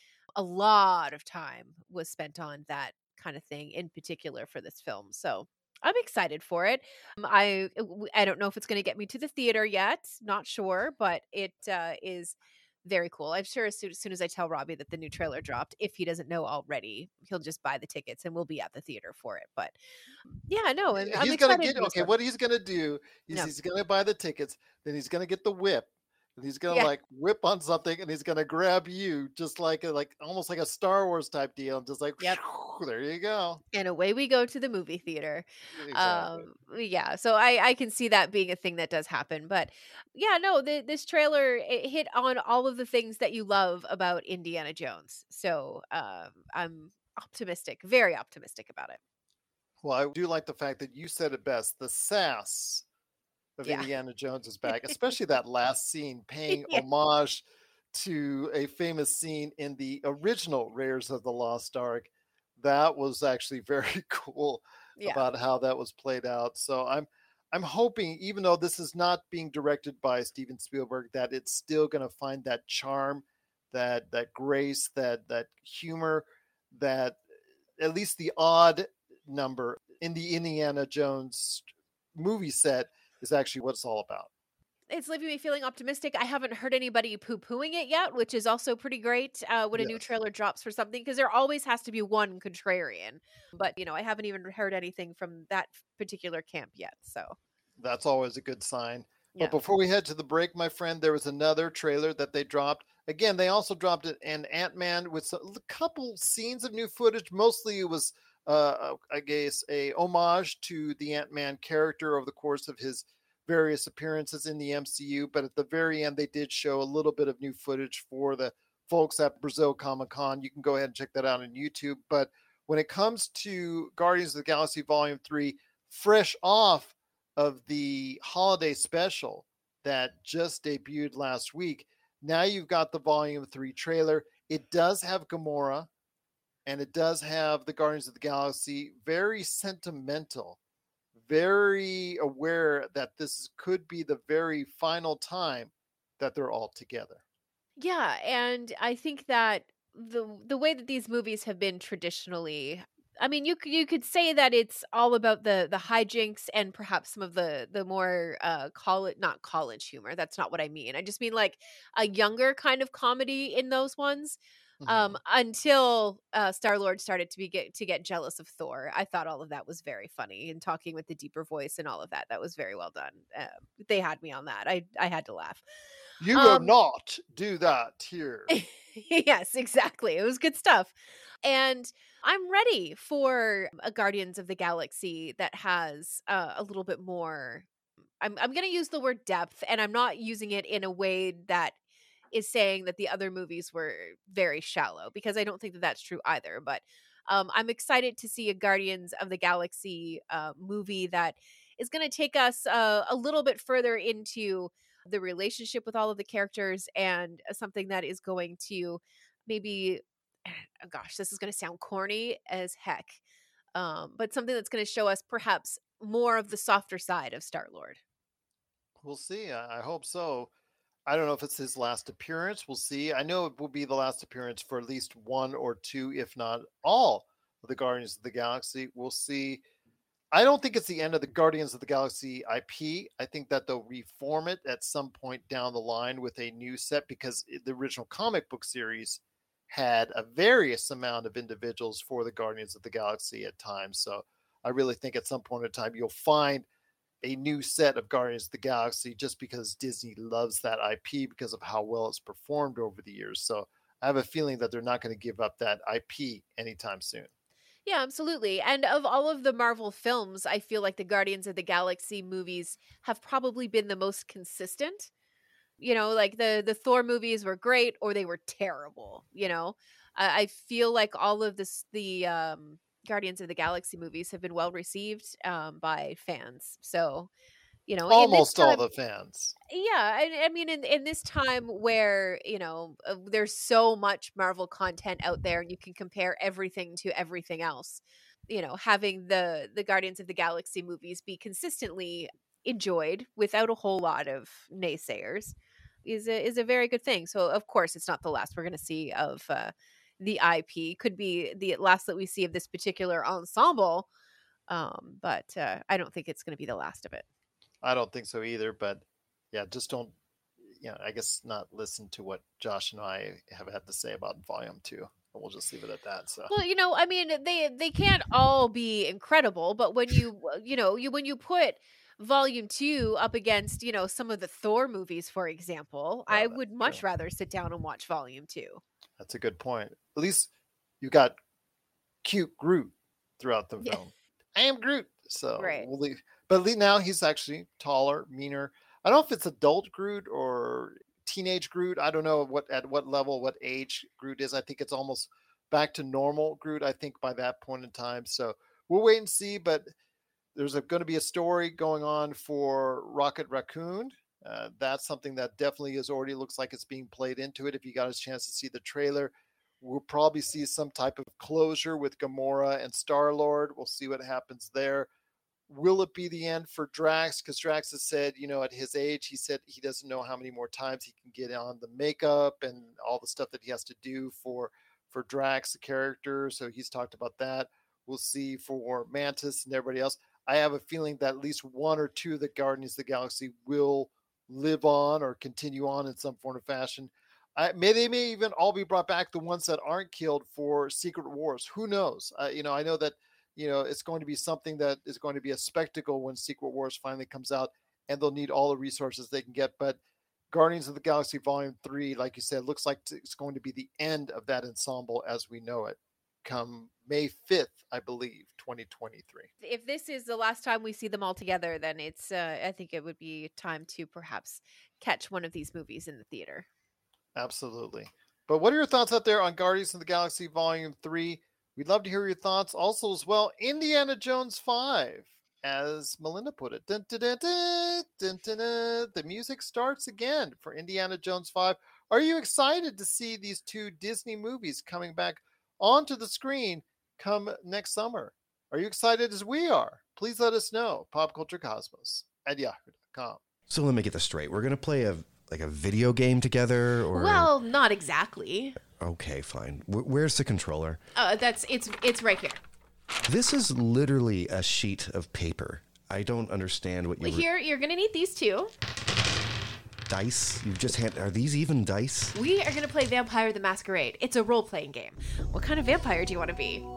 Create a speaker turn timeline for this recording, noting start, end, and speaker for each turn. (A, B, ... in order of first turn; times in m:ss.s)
0:00.4-0:19.8 A
0:20.5-0:22.1 A
0:21.0-0:33.6 B
0:33.7-0:49.0 A
0:35.8-0:36.5 B
0:49.8-0:52.8 B
0:53.6-1:17.2 B
0:54.7-0:55.0 A
0:56.5-0:56.8 A
1:05.0-1:05.2 A
1:17.8-1:24.3 B
1:24.9-1:37.4 A
1:29.7-1:30.0 B
1:37.8-2:15.9 B
2:16.7-2:20.6 B
2:21.2-2:27.2 B
2:27.8-2:55.6 A
2:44.8-2:45.2 B
2:56.2-2:58.6 B
2:56.4-2:56.7 A
2:58.5-3:07.7 A
3:08.2-3:11.8 A
3:12.3-3:33.2 A
3:33.8-3:38.0 A
3:39.0-3:40.5 B
3:41.1-3:49.6 B
3:50.3-4:06.7 B
4:07.2-4:17.3 B
4:17.9-4:25.1 A
4:25.8-4:37.3 A
4:37.9-4:38.8 A
4:38.1-4:39.6 B
4:39.7-5:04.1 A
5:04.7-5:07.2 A
5:07.8-5:10.1 B
5:10.7-5:16.5 B
5:16.5-5:28.8 A
5:26.3-5:27.0 B
5:29.2-5:30.5 B
5:31.0-5:31.4 B
5:32.2-5:49.9 B
5:35.6-5:35.9 A
5:50.6-6:05.1 B
6:05.7-6:40.0 B
6:40.5-6:49.5 B
6:49.6-6:56.7 A
6:57.4-7:23.4 B
7:23.7-7:27.5 C
7:27.2-7:28.8 A
7:28.9-7:31.0 C
7:31.2-7:32.6 A
7:33.2-7:37.5 C
7:37.2-7:38.7 A
7:40.1-7:42.4 C
7:42.3-7:46.8 A